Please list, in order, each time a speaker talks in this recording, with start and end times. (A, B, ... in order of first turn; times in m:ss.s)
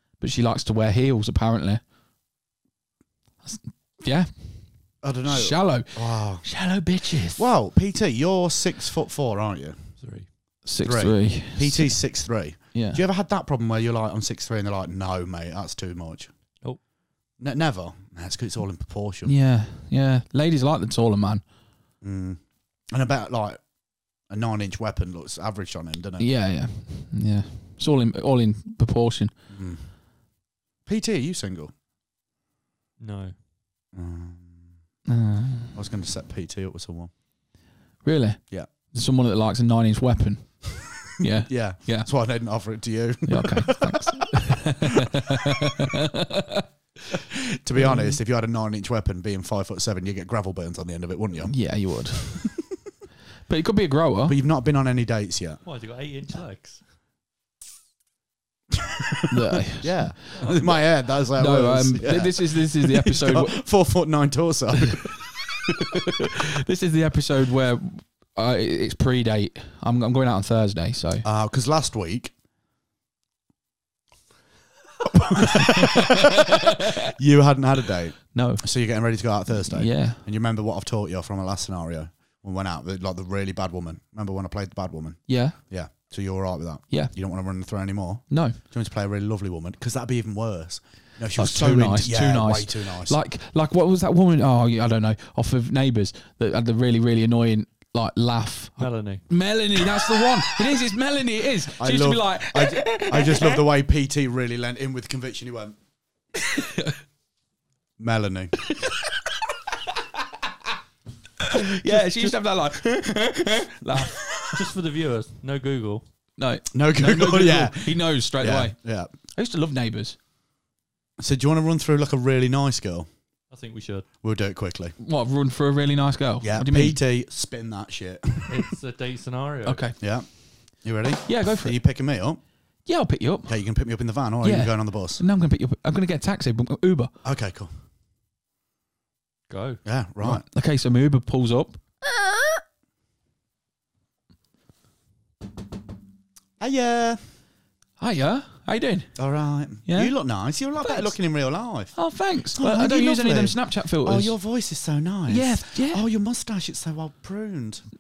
0:00.2-0:01.8 A
0:03.4-0:07.5 A
0:05.0-0:06.5 B
0:07.4-0:09.8 B
0:10.0-0:10.3 C
0:10.6-0:12.0 A
0:10.8-0:16.3 B
0:12.7-0:13.0 A
0:17.4-0:19.3 B
0:19.3-0:21.4 A
0:22.0-0:22.4 B
0:22.9-0:23.6 B
0:24.3-0:26.3 B
0:26.2-0:29.3 A
0:29.5-0:29.9 B
0:30.9-0:31.7 B
0:33.0-0:33.4 C
0:33.9-0:34.6 B
0:35.1-0:35.8 A
0:35.7-0:37.1 B
0:38.0-0:42.1 A
0:41.5-0:44.2 B
0:43.3-0:46.6 A
0:47.3-0:51.7 B
0:47.8-0:48.2 A
0:51.5-0:52.5 A
0:53.5-0:54.4 A
0:54.3-0:55.6 B
0:55.7-0:56.8 C
0:58.7-1:05.1 B
0:59.3-1:00.8 A
1:00.3-1:00.6 C
1:01.3-1:03.6 A
1:05.6-1:11.3 A
1:11.2-1:12.3 B
1:15.1-1:33.2 B
1:15.6-1:16.3 A
1:18.3-1:18.7 A
1:19.7-1:20.2 A
1:25.3-1:25.6 A
1:28.3-1:28.6 A
1:31.4-1:43.7 A
1:38.8-1:39.3 C
1:41.8-1:45.8 B
1:46.4-1:47.0 A
1:48.0-1:48.6 B
1:51.4-1:54.2 A
1:52.0-1:52.3 B
1:54.4-1:56.0 C
1:56.4-2:00.2 A
1:56.7-1:59.1 B
2:01.2-2:03.1 B
2:03.5-2:04.1 C
2:04.2-2:05.0 B
2:05.0-2:07.0 A
2:06.4-2:08.6 B
2:08.5-2:09.8 C
2:09.6-2:10.3 A
2:10.0-2:12.4 B
2:11.3-2:11.8 A
2:12.8-2:13.6 A
2:13.5-2:15.2 B
2:14.4-2:17.1 A
2:17.2-2:17.7 B
2:19.5-2:19.8 C
2:19.8-2:20.4 B
2:20.2-2:21.8 A
2:26.6-2:27.2 B
2:28.0-2:29.2 A
2:29.2-2:37.9 B
2:29.8-2:30.2 A
2:30.8-2:31.2 A
2:32.0-2:34.4 A
2:35.3-2:36.0 A